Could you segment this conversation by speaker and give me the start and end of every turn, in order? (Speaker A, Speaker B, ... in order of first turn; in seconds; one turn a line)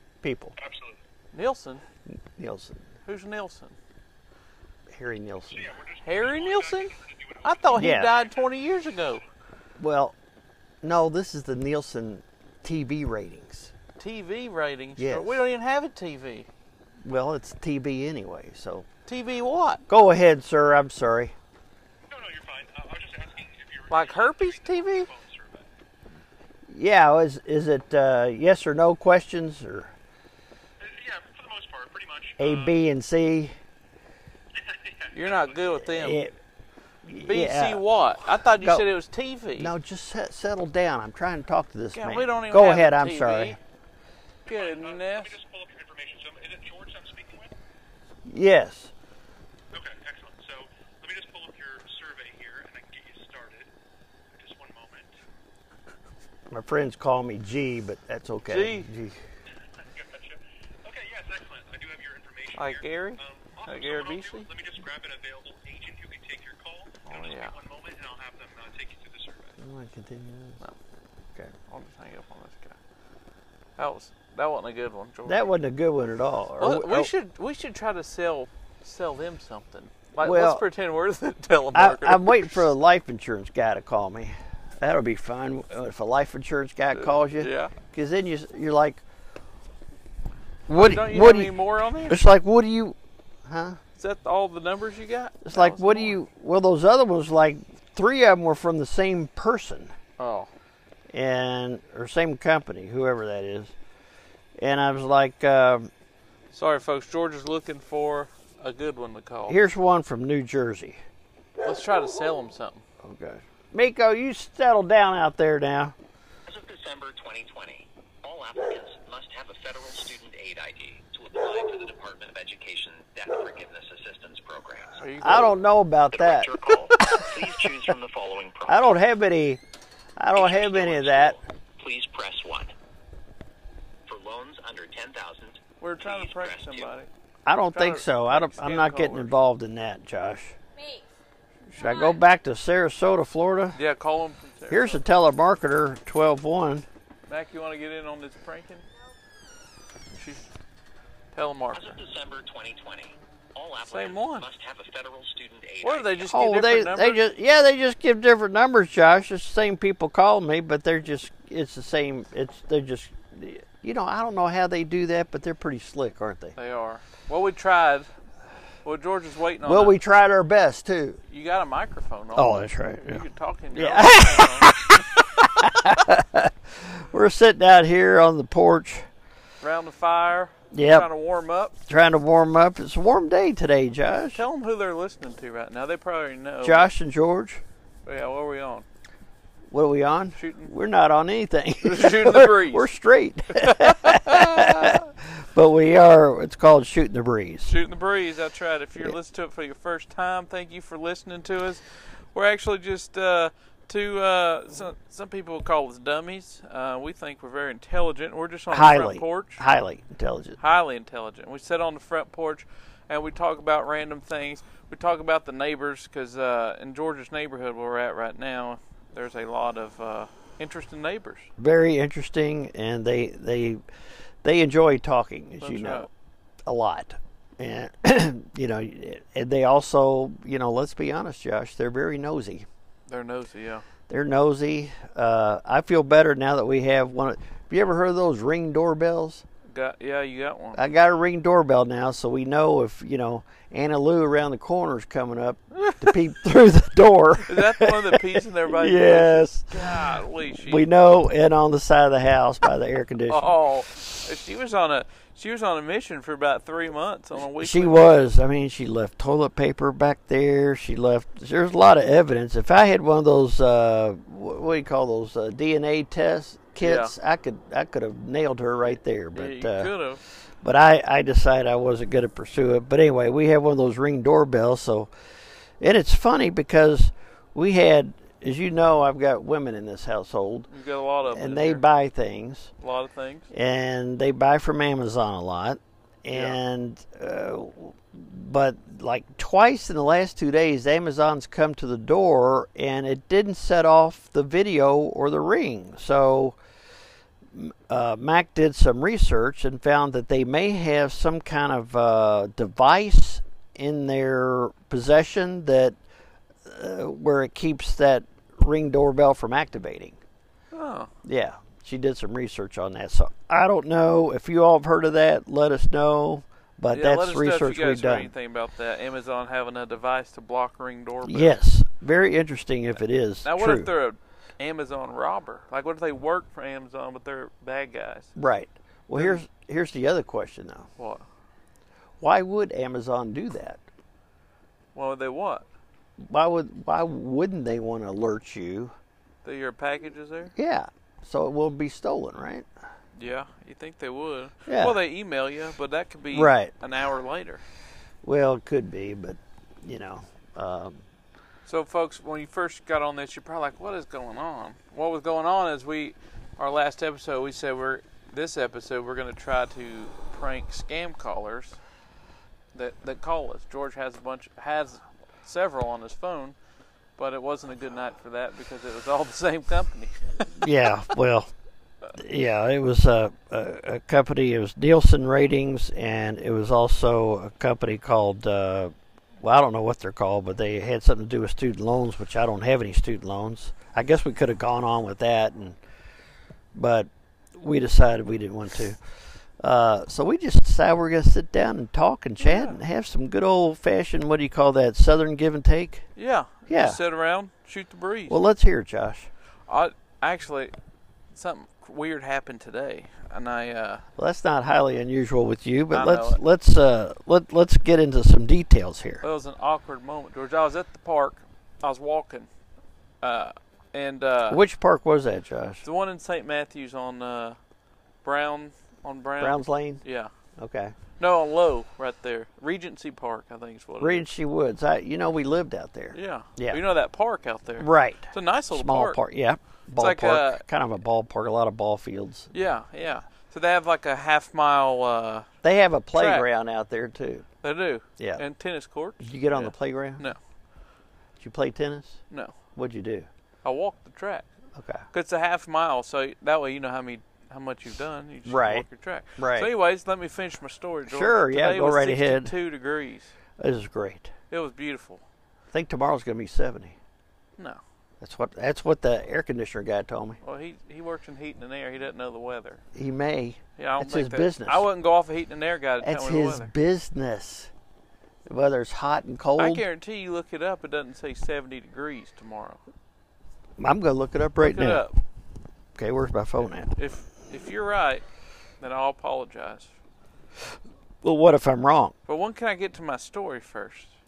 Speaker A: 0.2-0.6
Speaker B: 0.6-1.1
Speaker C: 1.3-1.8
Speaker A: 2.1-2.9
Speaker C: 3.1-3.8
Speaker A: 4.9-5.8
Speaker B: 5.5-9.2
Speaker C: 6.0-9.2
Speaker A: 7.7-8.2
Speaker A: 9.8-10.2
Speaker A: 10.8-13.7
Speaker C: 14.0-16.5
Speaker A: 15.0-15.4
Speaker A: 17.0-18.9
Speaker C: 19.1-19.8
Speaker A: 19.9-21.3
Speaker B: 22.1-25.7
Speaker C: 23.9-25.1
Speaker A: 26.7-29.9
Speaker B: 30.8-32.8
Speaker A: 32.4-33.6
Speaker B: 34.5-35.9
Speaker C: 35.1-36.2
Speaker A: 35.9-36.3
Speaker A: 37.1-37.8
Speaker C: 37.3-39.7
Speaker A: 38.5-38.9
Speaker A: 39.6-43.6
Speaker C: 41.9-43.6
Speaker B: 44.5-47.5
Speaker C: 44.5-45.4
Speaker A: 48.3-48.9
Speaker B: 49.7-53.7
Speaker B: 54.3-55.1
Speaker A: 56.5-59.2
Speaker C: 58.5-58.9
Speaker B: 59.7-69.6
Speaker C: 62.5-64.5
Speaker C: 67.0-67.6
Speaker A: 69.6-70.6
Speaker C: 71.7-72.8
Speaker C: 73.8-75.5
Speaker A: 75.3-77.1
Speaker C: 76.6-82.7
Speaker A: 80.2-80.7
Speaker A: 81.7-89.0
Speaker C: 87.0-87.7
Speaker A: 90.7-91.5
Speaker C: 90.8-92.2
Speaker A: 92.1-93.0
Speaker A: 93.5-93.8
Speaker C: 94.0-96.2
Speaker A: 95.4-99.9
Speaker C: 100.2-100.5
Speaker A: 101.1-103.7
Speaker A: 104.6-105.9
Speaker C: 106.5-109.6
Speaker A: 109.5-111.0
Speaker C: 111.6-112.8
Speaker A: 113.0-116.0
Speaker D: 116.5-125.0
Speaker C: 125.0-125.6
Speaker A: 125.2-127.3
Speaker D: 126.1-129.0
Speaker A: 128.7-129.6
Speaker A: 130.2-131.4
Speaker D: 130.3-132.7
Speaker D: 134.1-137.0
Speaker C: 135.8-137.1
Speaker A: 137.4-140.6
Speaker C: 137.7-139.3
Speaker A: 141.8-143.8
Speaker C: 143.8-145.0
Speaker A: 144.7-146.9
Speaker C: 147.3-148.8
Speaker C: 150.2-150.5
Speaker C: 151.3-152.0
Speaker D: 151.7-156.3
Speaker C: 153.9-154.5
Speaker C: 155.8-157.2
Speaker A: 156.3-166.6
Speaker C: 166.6-168.1
Speaker C: 168.8-170.0
Speaker A: 169.7-171.2
Speaker C: 171.3-174.7
Speaker A: 172.3-179.1
Speaker C: 179.6-181.8
Speaker A: 180.7-181.1
Speaker A: 181.9-184.4
Speaker C: 184.3-186.9
Speaker A: 186.6-187.6
Speaker C: 188.1-188.9
Speaker A: 189.7-197.7
Speaker C: 190.4-190.7
Speaker C: 191.8-192.9
Speaker C: 193.6-195.0
Speaker C: 197.7-201.8
Speaker C: 202.3-209.6
Speaker A: 208.7-210.6
Speaker C: 210.6-221.5
Speaker A: 221.6-223.8
Speaker A: 224.4-226.1
Speaker C: 225.6-226.1
Speaker A: 226.7-232.7
Speaker C: 233.1-233.8
Speaker A: 234.1-239.4
Speaker C: 239.7-240.8
Speaker A: 240.8-253.5
Speaker C: 245.8-246.1
Speaker C: 247.5-250.9
Speaker C: 253.3-258.3
Speaker A: 257.6-269.9
Speaker C: 266.8-267.1
Speaker C: 269.4-270.2
Speaker A: 270.6-275.1
Speaker A: 275.8-280.7
Speaker C: 280.7-281.8
Speaker A: 281.3-282.7
Speaker C: 282.8-283.5
Speaker A: 283.5-296.6
Speaker A: 297.5-306.0
Speaker A: 306.7-310.2
Speaker C: 310.7-311.1
Speaker A: 311.2-318.3
Speaker C: 316.9-321.6
Speaker A: 321.3-323.9
Speaker C: 323.4-328.3
Speaker A: 328.4-330.9
Speaker C: 329.1-329.4
Speaker C: 331.0-331.2
Speaker A: 332.2-333.8
Speaker C: 334.9-335.6
Speaker A: 336.2-338.9
Speaker C: 339.4-340.5
Speaker A: 340.6-342.7
Speaker C: 343.2-347.6
Speaker A: 344.7-345.0
Speaker A: 346.3-346.7
Speaker A: 348.2-351.0
Speaker C: 351.7-361.8
Speaker C: 362.7-366.6
Speaker C: 367.2-370.6
Speaker A: 370.6-371.5
Speaker A: 372.1-385.8
Speaker A: 386.8-389.0
Speaker A: 389.6-396.1
Speaker C: 392.4-392.8
Speaker C: 396.2-398.4
Speaker A: 396.7-397.0
Speaker A: 398.3-399.3
Speaker C: 399.7-400.8
Speaker C: 401.3-404.0
Speaker A: 404.2-409.2
Speaker C: 405.9-406.4
Speaker C: 409.2-412.5
Speaker C: 413.2-414.6
Speaker A: 414.5-415.8
Speaker C: 415.8-417.6
Speaker C: 418.2-420.3
Speaker A: 419.4-420.0
Speaker A: 420.6-420.9
Speaker C: 421.2-424.2
Speaker A: 424.0-426.8
Speaker C: 426.1-429.2
Speaker A: 427.8-432.5
Speaker C: 430.0-430.6
Speaker C: 432.5-435.5
Speaker A: 435.6-437.4
Speaker C: 436.1-436.5
Speaker C: 437.6-440.4
Speaker A: 439.2-440.3
Speaker A: 441.4-442.2
Speaker A: 442.8-443.3
Speaker C: 443.6-444.5
Speaker A: 444.8-445.1
Speaker C: 445.1-453.3
Speaker A: 448.5-448.9
Speaker A: 449.4-449.7
Speaker A: 451.1-452.5
Speaker A: 453.6-454.3
Speaker C: 454.5-455.2
Speaker A: 455.7-457.0
Speaker A: 458.2-460.4
Speaker C: 460.4-462.8
Speaker A: 462.9-464.9
Speaker C: 463.8-466.7
Speaker A: 466.0-467.7
Speaker A: 468.5-469.8
Speaker C: 469.6-472.8
Speaker A: 473.8-475.1
Speaker C: 474.6-475.2
Speaker A: 476.0-476.9
Speaker C: 476.9-478.2
Speaker C: 478.8-479.9
Speaker A: 481.2-482.1
Speaker C: 482.3-484.1